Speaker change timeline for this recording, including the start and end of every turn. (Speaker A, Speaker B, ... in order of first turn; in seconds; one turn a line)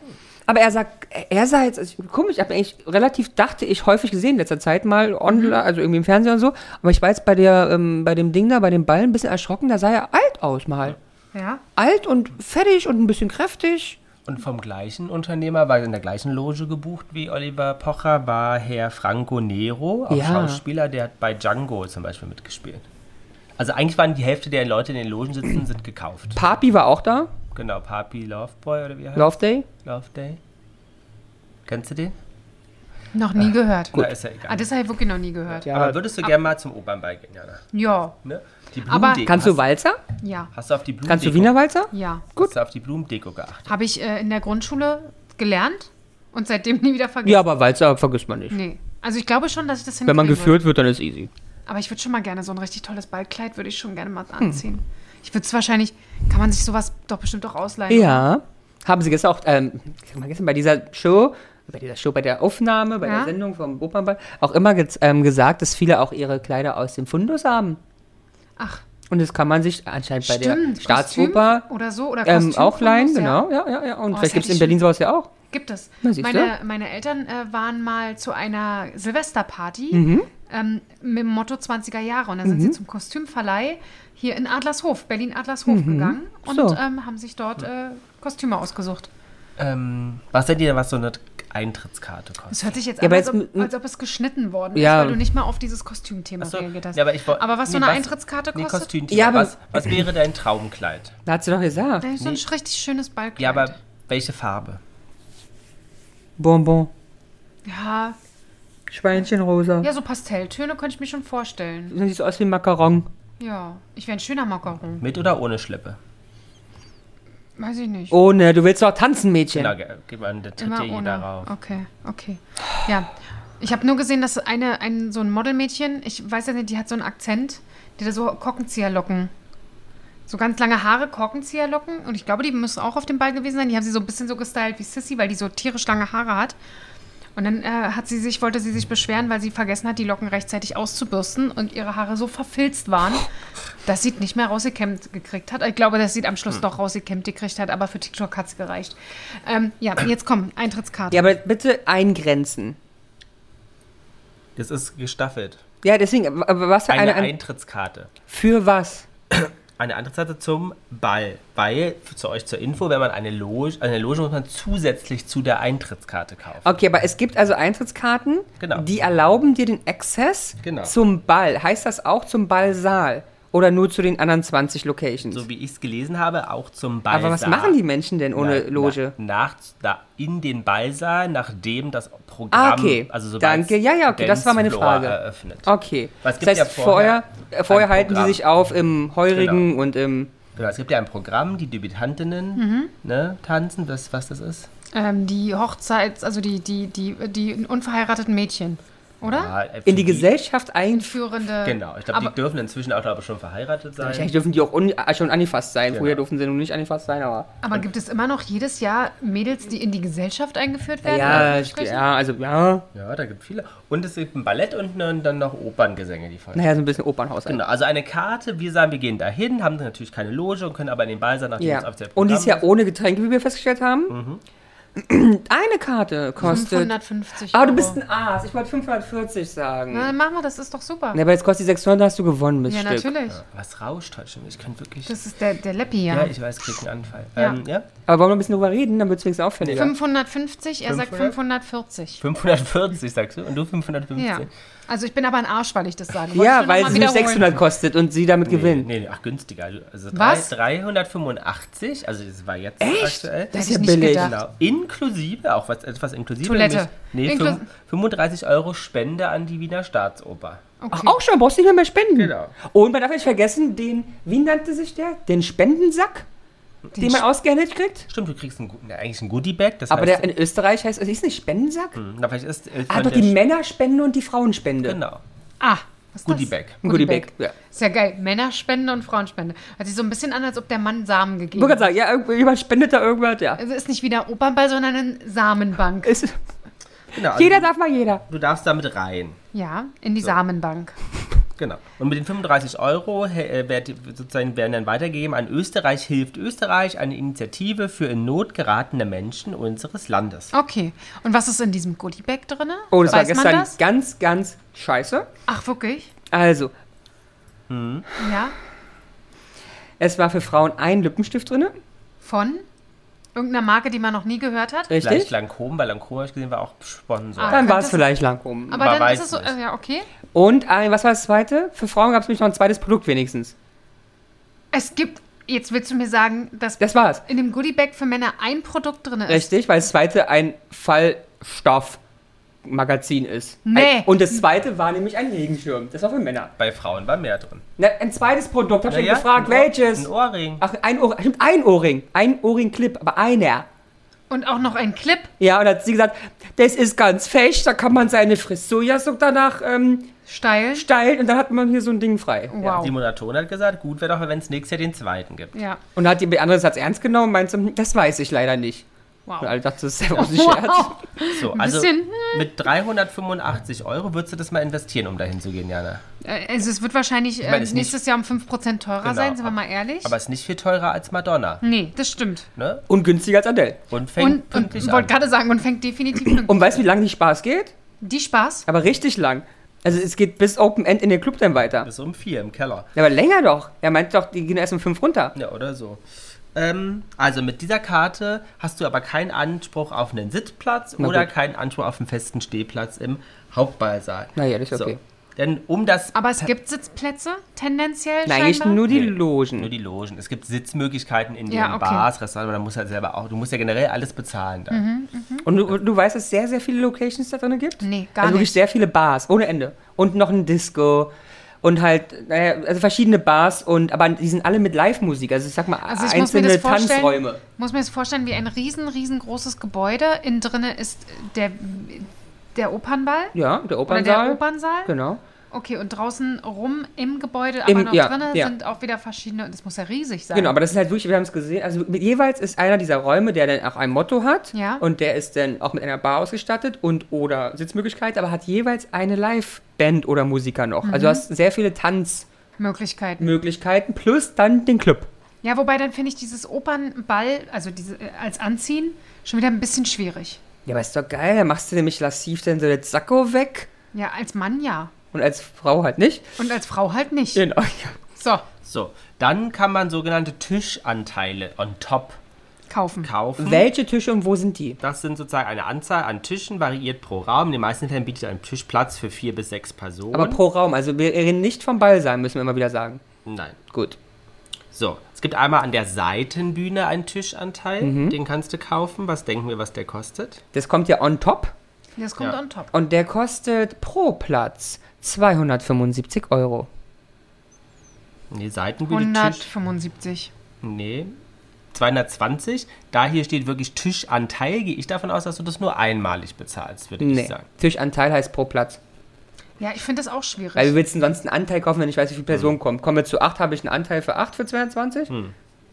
Speaker A: 0.5-11.0
Speaker B: 5.3-5.6
Speaker B: 11.3-11.6
Speaker A: 11.8-14.0
Speaker C: 14.2-22.9
Speaker A: 20.1-20.6
Speaker C: 23.6-26.4
Speaker A: 26.4-27.3
Speaker C: 27.5-30.4
Speaker A: 29.1-29.7
Speaker C: 31.6-32.1
Speaker B: 33.1-35.7
Speaker C: 33.9-34.6
Speaker C: 35.6-37.6
Speaker A: 35.6-36.0
Speaker B: 37.7-38.2
Speaker C: 38.2-39.6
Speaker B: 38.9-39.3
Speaker A: 39.2-40.0
Speaker B: 40.2-40.5
Speaker C: 40.5-41.5
Speaker A: 41.0-42.5
Speaker B: 41.9-42.3
Speaker C: 42.4-43.7
Speaker B: 43.7-47.4
Speaker A: 47.2-48.6
Speaker B: 48.5-50.6
Speaker A: 50.0-51.3
Speaker B: 51.7-58.3
Speaker A: 57.9-67.8
Speaker B: 63.0-63.3
Speaker B: 68.6-68.8
Speaker A: 69.1-71.7
Speaker B: 70.2-73.4
Speaker A: 72.2-75.3
Speaker B: 74.1-74.8
Speaker B: 75.5-89.1
Speaker A: 76.0-76.5
Speaker A: 79.9-80.3
Speaker A: 82.4-82.8
Speaker A: 85.7-86.8
Speaker C: 89.6-92.8
Speaker B: 92.5-98.9
Speaker A: 93.0-93.7
Speaker A: 94.7-95.2
Speaker C: 96.4-101.2
Speaker A: 99.1-100.0
Speaker A: 101.2-102.1
Speaker B: 102.0-103.7
Speaker C: 103.4-104.8
Speaker A: 106.4-106.9
Speaker B: 107.6-108.2
Speaker A: 108.9-109.9
Speaker B: 109.8-111.9
Speaker A: 111.9-113.1
Speaker B: 113.4-115.0
Speaker C: 115.0-116.0
Speaker B: 117.6-118.2
Speaker A: 118.1-119.7
Speaker C: 119.5-121.5
Speaker B: 120.6-129.3
Speaker B: 130.3-136.6
Speaker B: 137.3-143.3
Speaker B: 143.8-151.2
Speaker A: 151.1-152.8
Speaker C: 154.6-155.6
Speaker A: 155.8-157.3
Speaker C: 156.9-158.1
Speaker A: 158.3-159.1
Speaker C: 159.3-166.8
Speaker A: 166.6-175.4
Speaker C: 168.6-168.9
Speaker C: 170.6-170.9
Speaker C: 175.3-177.8
Speaker A: 177.1-179.1
Speaker C: 178.3-185.7
Speaker A: 182.5-190.3
Speaker C: 186.2-188.4
Speaker C: 189.3-189.7
Speaker C: 190.6-194.7
Speaker B: 192.6-192.9
Speaker B: 194.9-199.5
Speaker C: 199.2-200.3
Speaker A: 199.8-201.2
Speaker B: 200.9-202.3
Speaker C: 201.6-204.3
Speaker A: 204.0-207.5
Speaker C: 205.9-206.2
Speaker B: 207.6-212.0
Speaker A: 211.0-212.9
Speaker C: 211.2-211.5
Speaker C: 212.9-216.8
Speaker A: 216.5-217.6
Speaker C: 217.4-222.6
Speaker A: 221.6-224.2
Speaker C: 224.1-224.4
Speaker A: 224.9-226.9
Speaker B: 226.4-228.0
Speaker A: 227.5-230.1
Speaker B: 229.9-231.2
Speaker A: 231.1-233.1
Speaker B: 232.7-233.4
Speaker C: 233.3-235.1
Speaker B: 235.1-236.3
Speaker C: 236.1-237.8
Speaker A: 238.1-239.9
Speaker C: 239.6-239.9
Speaker B: 239.7-242.2
Speaker C: 240.8-241.4
Speaker C: 242.2-244.5
Speaker B: 244.2-247.6
Speaker A: 246.3-248.9
Speaker C: 248.4-260.6
Speaker B: 250.1-250.5
Speaker A: 252.8-254.3
Speaker B: 253.5-254.3
Speaker B: 256.4-257.6
Speaker B: 260.8-261.2
Speaker A: 260.9-266.3
Speaker C: 262.1-262.5
Speaker B: 266.9-267.2
Speaker A: 267.0-268.1
Speaker C: 268.1-270.3
Speaker A: 269.9-272.0
Speaker C: 271.9-273.4
Speaker A: 272.9-275.0
Speaker C: 274.8-275.2
Speaker B: 275.6-281.9
Speaker C: 276.2-276.8
Speaker A: 276.8-277.5
Speaker A: 281.6-283.6
Speaker B: 283.6-286.2
Speaker A: 286.0-286.4
Speaker C: 287.1-287.7
Speaker A: 287.3-288.2
Speaker C: 288.3-289.4
Speaker B: 289.5-290.9
Speaker C: 291.6-300.5
Speaker B: 300.5-303.8
Speaker A: 302.9-305.3
Speaker B: 305.5-306.1
Speaker A: 306.3-306.7
Speaker C: 307.7-308.1
Speaker B: 308.2-308.5
Speaker A: 310.0-311.8
Speaker B: 312.2-312.6
Speaker B: 313.3-314.9
Speaker A: 314.9-315.3
Speaker C: 315.0-317.7
Speaker B: 317.4-318.1
Speaker A: 317.5-318.9
Speaker B: 318.7-320.1
Speaker C: 318.8-319.5
Speaker A: 320.3-323.5
Speaker B: 324.7-329.5
Speaker A: 326.8-327.2
Speaker A: 329.3-332.0
Speaker A: 332.6-336.5
Speaker B: 333.6-334.4
Speaker C: 336.6-337.6
Speaker A: 337.8-340.1
Speaker C: 338.9-340.6
Speaker A: 340.6-343.7
Speaker B: 344.3-345.3
Speaker A: 345.4-350.1
Speaker B: 350.3-350.9
Speaker A: 350.7-352.9
Speaker B: 352.5-352.9
Speaker C: 352.7-355.6
Speaker B: 355.5-355.8
Speaker A: 355.9-358.8
Speaker B: 359.3-359.5
Speaker A: 359.4-361.0
Speaker B: 360.1-362.6
Speaker C: 361.2-366.0
Speaker B: 366.2-370.1
Speaker C: 367.4-368.0
Speaker C: 369.0-371.6
Speaker B: 371.6-372.5
Speaker C: 372.6-372.8
Speaker A: 372.9-373.8
Speaker C: 373.9-375.1
Speaker B: 374.2-376.8
Speaker A: 376.2-377.7
Speaker B: 378.0-378.7
Speaker A: 378.7-381.9
Speaker C: 381.8-382.9
Speaker A: 382.9-385.3
Speaker C: 385.3-386.0
Speaker C: 386.5-396.5
Speaker A: 391.0-391.3
Speaker A: 394.4-395.0
Speaker B: 396.1-398.8
Speaker A: 398.2-399.7
Speaker C: 398.9-404.8
Speaker B: 401.5-402.1
Speaker B: 404.7-405.5
Speaker A: 405.4-411.1
Speaker B: 407.8-408.6
Speaker A: 411.6-417.4
Speaker B: 415.8-423.3
Speaker A: 423.3-425.2
Speaker B: 423.9-424.9
Speaker B: 425.5-430.5
Speaker A: 427.6-428.5
Speaker A: 430.3-442.3
Speaker B: 434.5-434.8
Speaker B: 440.8-441.2
Speaker B: 442.6-443.4
Speaker A: 443.2-445.1
Speaker B: 445.4-450.4
Speaker A: 450.6-453.7
Speaker B: 453.9-454.9
Speaker A: 455.1-456.3
Speaker B: 456.4-457.4
Speaker A: 457.3-458.0
Speaker B: 458.2-458.4
Speaker C: 458.6-462.2
Speaker B: 462.7-463.1
Speaker C: 463.0-463.7
Speaker A: 463.4-464.8
Speaker C: 464.8-470.4
Speaker A: 470.1-473.0
Speaker C: 473.2-473.6
Speaker A: 473.7-474.0
Speaker C: 474.7-480.4
Speaker A: 477.8-478.2
Speaker A: 480.5-481.5
Speaker B: 482.0-482.7
Speaker A: 482.7-486.7
Speaker C: 488.3-489.4
Speaker B: 488.9-490.3
Speaker C: 490.6-491.2
Speaker C: 491.7-497.5
Speaker A: 497.0-498.8
Speaker B: 499.6-500.8
Speaker A: 500.6-505.1
Speaker C: 502.3-502.5